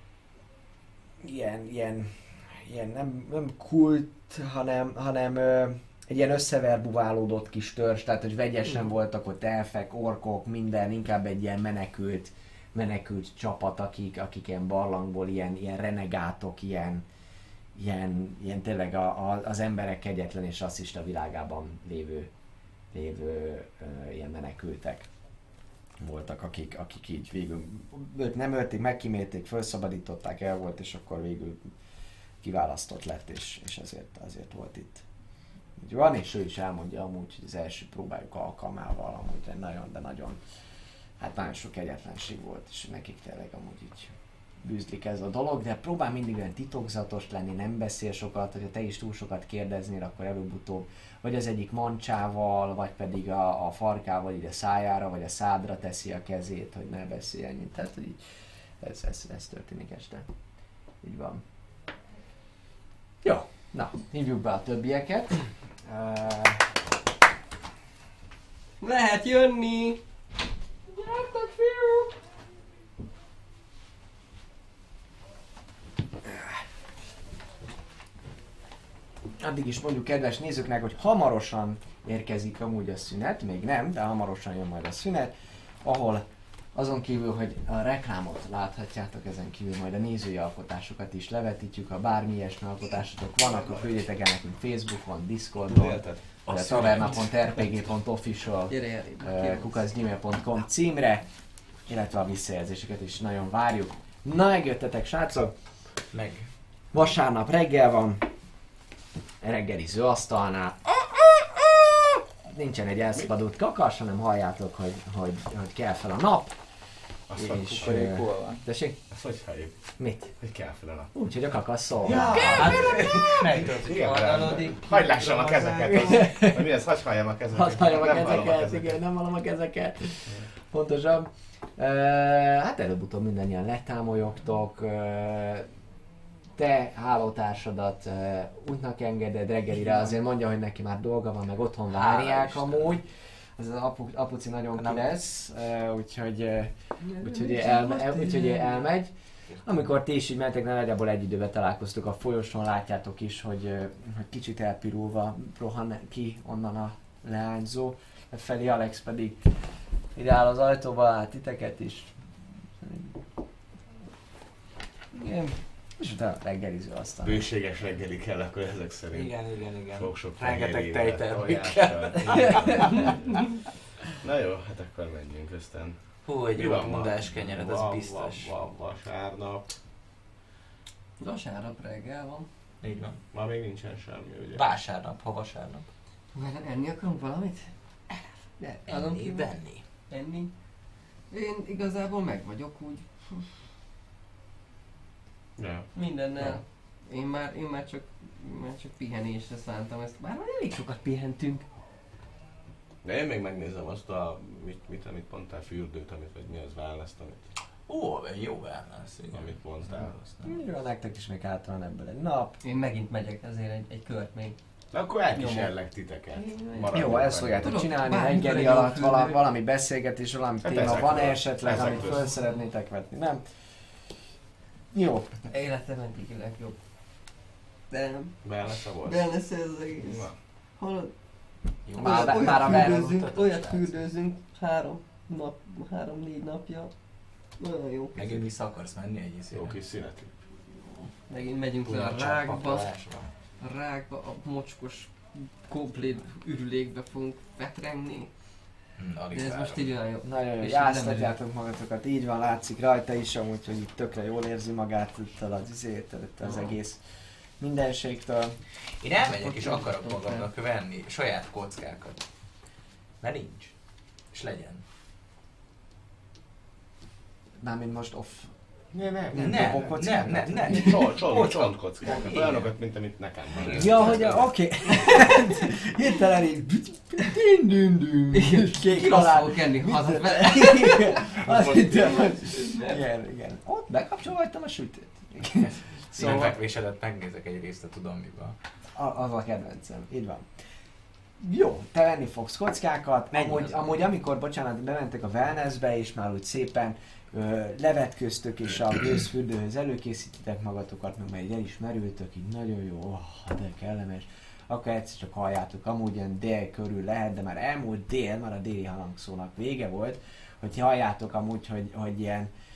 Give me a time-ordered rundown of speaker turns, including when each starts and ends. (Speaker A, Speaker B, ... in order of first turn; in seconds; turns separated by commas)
Speaker A: 1.2-17.0, Speaker A: 17.7-22.3, Speaker A: 22.9-25.1, Speaker A: 26.0-31.7, Speaker A: 32.4-35.0, Speaker A: 35.8-40.4, Speaker A: 41.2-58.2, Speaker A: 58.8-60.3, Speaker A: 61.0-61.4, Speaker A: 63.2-66.7, Speaker B: 68.8-70.0, Speaker B: 70.9-72.2, Speaker A: 76.2-76.6, Speaker A: 79.4-101.3, Speaker C: 93.6-93.9, Speaker C: 95.7-97.3, Speaker D: 96.5-97.2, Speaker B: 98.7-99.7, Speaker A: 101.8-105.5, Speaker D: 106.1-106.5, Speaker A: 106.9-108.3, Speaker A: 109.4-116.6, Speaker C: 117.3-118.0, Speaker A: 117.4-119.0, Speaker D: 117.6-118.6, Speaker C: 119.1-121.1, Speaker A: 120.0-120.3, Speaker A: 121.1-123.2, Speaker C: 122.0-129.0, Speaker D: 122.1-125.9, Speaker A: 125.7-126.7, Speaker A: 127.5-135.7, Speaker A: 136.5-149.1, Speaker D: 141.9-143.0, Speaker D: 144.7-145.1, Speaker B: 147.0-148.8, Speaker A: 149.6-162.3, Speaker A: 162.8-163.2, Speaker A: 165.2-167.4, Speaker B: 165.2-165.5, Speaker C: 167.2-169.3, Speaker D: 169.1-173.3, Speaker C: 169.9-179.7, Speaker D: 176.2-178.5, Speaker B: 181.2-182.5, Speaker D: 182.8-183.2, Speaker C: 183.3-184.6, Speaker D: 184.5-185.9, Speaker B: 186.3-190.6, Speaker D: 188.9-189.8, Speaker B: 191.3-193.6, Speaker C: 195.6-195.9, Speaker B: 195.9-201.6, Speaker C: 203.0-207.4, Speaker D: 207.9-210.6, Speaker C: 209.3-210.2, Speaker A: 210.4-212.6, Speaker B: 212.6-214.6, Speaker C: 214.9-217.8, Speaker B: 215.3-215.7, Speaker B: 216.3-216.9, Speaker A: 216.9-223.5, Speaker B: 217.6-219.4, Speaker C: 220.6-222.2, Speaker A: 224.9-225.3, Speaker B: 225.5-226.8, Speaker B: 227.9-228.5, Speaker C: 228.4-229.3, Speaker B: 229.0-238.4, Speaker C: 230.0-230.3, Speaker D: 231.8-234.0, Speaker A: 231.9-233.1, Speaker D: 238.1-239.8, Speaker C: 239.5-240.4, Speaker B: 241.3-242.9, Speaker D: 241.8-243.3, Speaker B: 243.6-248.3, Speaker D: 248.9-249.9, Speaker B: 249.3-251.3, Speaker A: 250.2-257.0, Speaker A: 257.6-258.6, Speaker D: 259.0-262.3, Speaker B: 259.3-260.4, Speaker D: 263.2-263.7, Speaker D: 264.3-264.8, Speaker A: 267.6-268.5, Speaker C: 268.9-269.9, Speaker A: 269.3-270.9, Speaker D: 269.3-272.7, Speaker C: 270.6-274.4, Speaker D: 273.6-274.4, Speaker A: 273.7-286.5, Speaker B: 274.9-275.6, Speaker B: 278.3-281.3, Speaker C: 281.3-282.1, Speaker B: 282.0-283.0, Speaker D: 285.5-288.6, Speaker B: 286.2-286.5, Speaker A: 288.9-290.6, Speaker A: 291.4-312.5, Speaker D: 293.4-293.7